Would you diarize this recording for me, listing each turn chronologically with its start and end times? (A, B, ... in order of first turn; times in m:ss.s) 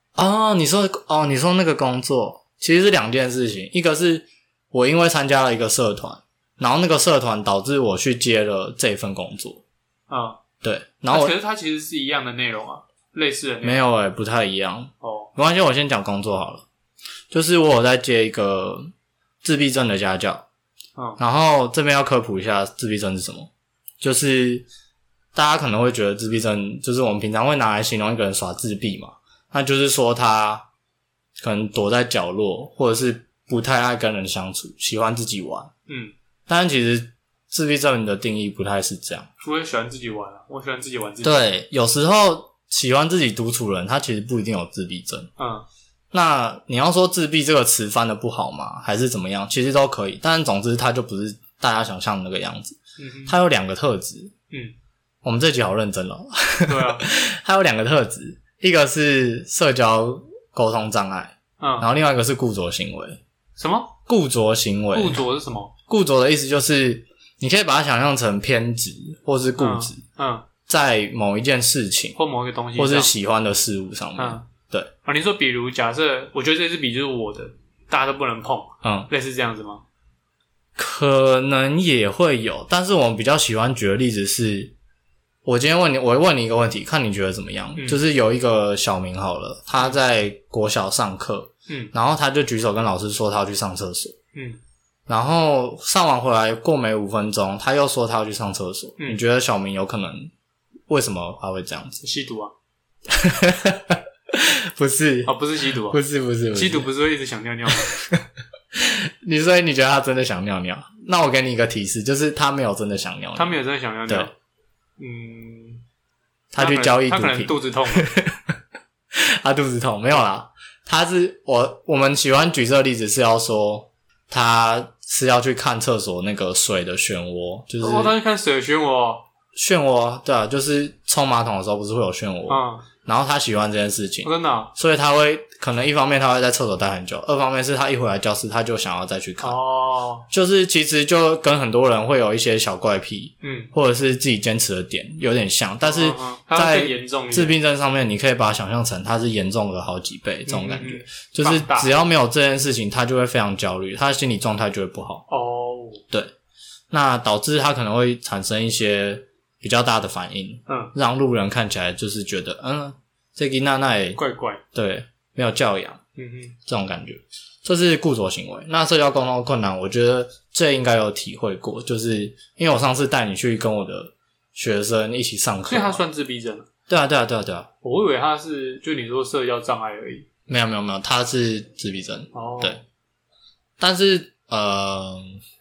0:00.2-0:09.6 A
0:10.1-0:10.4 B
0:10.6-0:11.3 A
0:11.1-0:13.8 B
0:13.6-0:16.6 A
0:15.0-0:15.3 B
0:17.3-0:18.9 A
0:19.4-0:20.4 A
0:21.2-0:23.5 A
0:24.0-0:24.7 A
0:25.3-0:30.7 A
0:31.4-0:35.7 A
0:35.9-0:36.1 B
0:36.5-0:39.3 A
0:39.4-0:41.5 B
0:41.2-0:45.3 A
0:45.4-0:45.6 B
0:46.1-0:54.3 A
0:53.0-0:53.4 B
0:55.2-1:03.2 A
0:56.7-0:57.1 B
1:01.6-1:01.9 B
1:03.6-1:03.9 B
1:04.1-1:05.2 A
1:04.9-1:05.7 B
1:05.9-1:10.0 A
1:09.6-1:10.5 B
1:10.7-1:12.2 A
1:12.2-1:13.1 B
1:12.8-1:14.9 A
1:14.2-1:14.5 B
1:15.0-1:19.8 B
1:18.8-1:19.1 A
1:20.8-1:24.7 A
1:25.4-1:34.2 A
1:27.8-1:28.0 B
1:34.3-1:34.6 B
1:35.1-1:40.3 A
1:40.9-1:42.0 A
1:42.0-1:42.5 B
1:43.1-1:46.9 A
1:45.2-1:46.0 B
1:46.5-1:47.9 B
1:47.7-1:54.3 A
1:53.4-1:54.3 B
1:55.0-1:55.8 B
1:56.5-1:58.6 A
1:56.6-1:58.1 B
1:59.1-2:08.2 A
2:07.8-2:09.3 B
2:09.6-2:19.6 A
2:12.5-2:12.9 B
2:14.2-2:14.7 B
2:19.4-2:20.3 B
2:20.3-2:35.2 A
2:23.4-2:23.7 B
2:25.8-2:27.6 B
2:30.5-2:31.9 B
2:35.3-2:36.0 B
2:36.9-2:44.2 A
2:40.7-2:40.9 B
2:44.2-2:44.6 B
2:44.7-2:46.0 A
2:46.2-2:46.6 B
2:46.7-2:56.0 A
2:55.7-2:56.7 B
2:56.9-2:57.7 A
2:57.8-3:00.2 B
3:00.5-3:02.8 A
3:02.3-3:02.8 B
3:03.8-3:05.4 A